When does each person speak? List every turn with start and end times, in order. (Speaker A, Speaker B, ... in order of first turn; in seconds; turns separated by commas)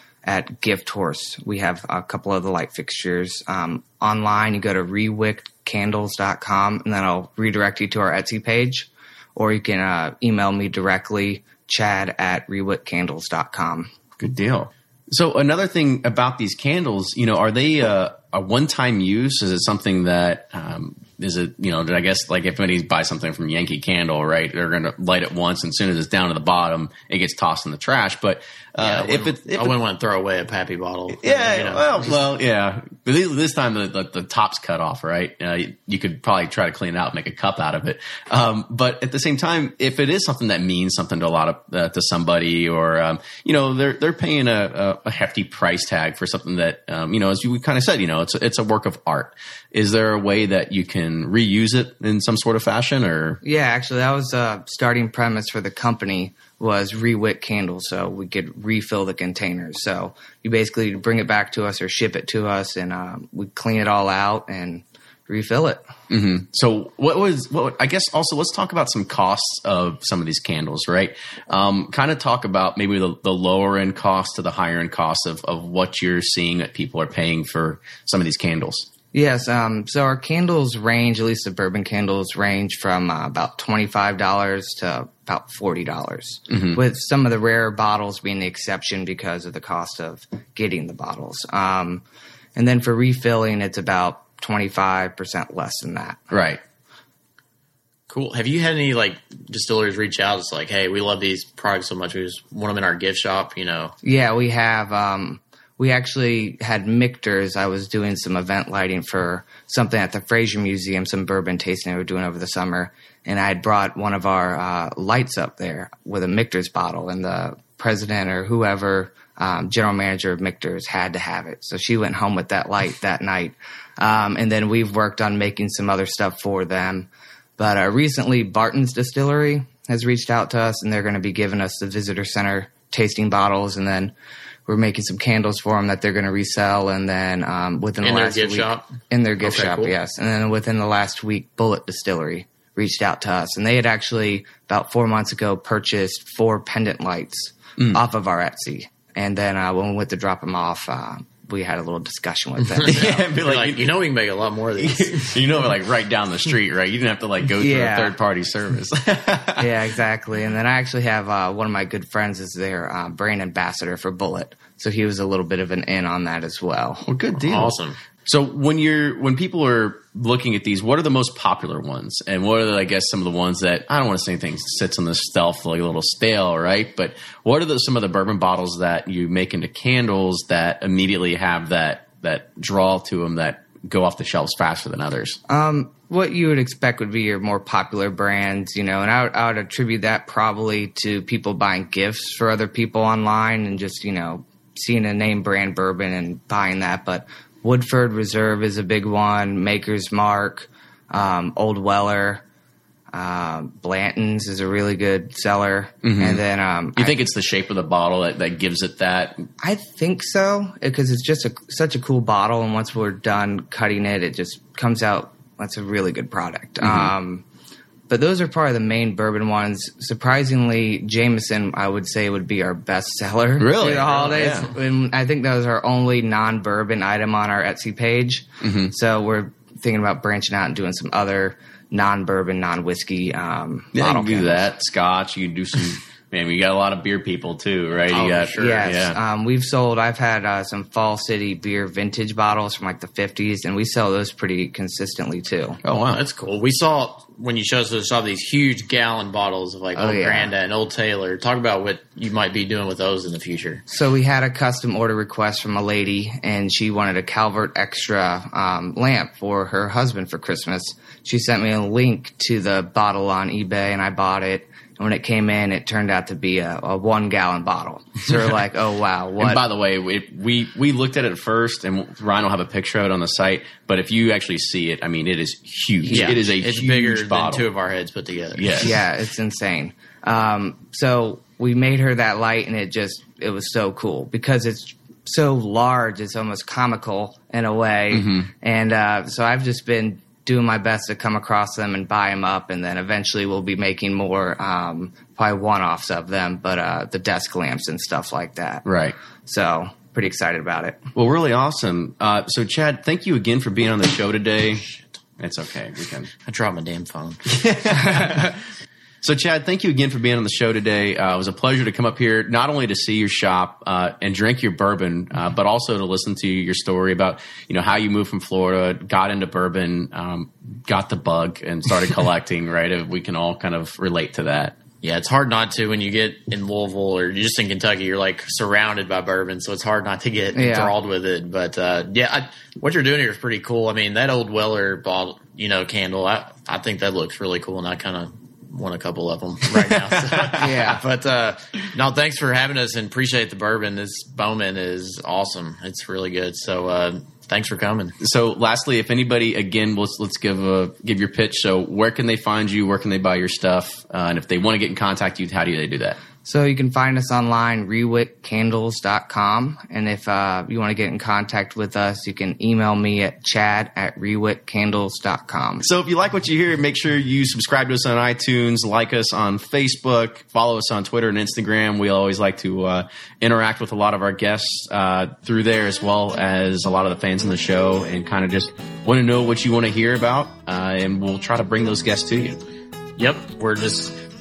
Speaker A: 0.2-13.9, Speaker B: 14.2-29.7, Speaker C: 28.8-32.2, Speaker B: 31.1-53.4, Speaker A: 53.4-65.8, Speaker B: 66.1-78.9, Speaker A: 79.1-92.0, Speaker B: 86.5-86.8, Speaker A: 92.5-96.2, Speaker B: 96.3-96.6, Speaker C: 98.1-103.9, Speaker A: 104.0-134.1, Speaker A: 134.7-153.1, Speaker C: 138.0-139.9, Speaker C: 152.7-155.4, Speaker B: 152.8-153.9, Speaker B: 154.8-159.7, Speaker A: 157.6-158.2, Speaker A: 159.6-167.1, Speaker B: 167.1-185.4, Speaker C: 167.5-168.0, Speaker A: 185.5-202.4, Speaker A: 203.1-207.2, Speaker B: 206.0-206.4, Speaker B: 207.0-209.5, Speaker A: 209.6-217.4, Speaker B: 216.8-217.1, Speaker A: 218.1-234.7, Speaker B: 223.6-224.7, Speaker B: 228.6-228.9, Speaker B: 233.9-239.2, Speaker C: 238.1-238.9, Speaker A: 238.6-245.8, Speaker B: 245.8-246.2, Speaker C: 246.1-253.8, Speaker A: 249.9-250.5, Speaker A: 253.9-269.6, Speaker B: 269.4-277.6, Speaker A: 276.0-276.4, Speaker C: 276.1-278.9, Speaker B: 278.5-279.0, Speaker A: 278.8-298.8, Speaker B: 288.1-288.5, Speaker B: 298.8-299.1, Speaker A: 299.4-301.0, Speaker B: 301.1-306.3, Speaker C: 306.4-307.4, Speaker B: 307.5-308.6, Speaker B: 309.2-324.8, Speaker C: 325.0-348.2, Speaker A: 330.5-330.9, Speaker A: 340.5-341.0, Speaker B: 348.2-356.2, Speaker A: 356.4-365.9, Speaker B: 365.8-382.6, Speaker C: 383.2-384.1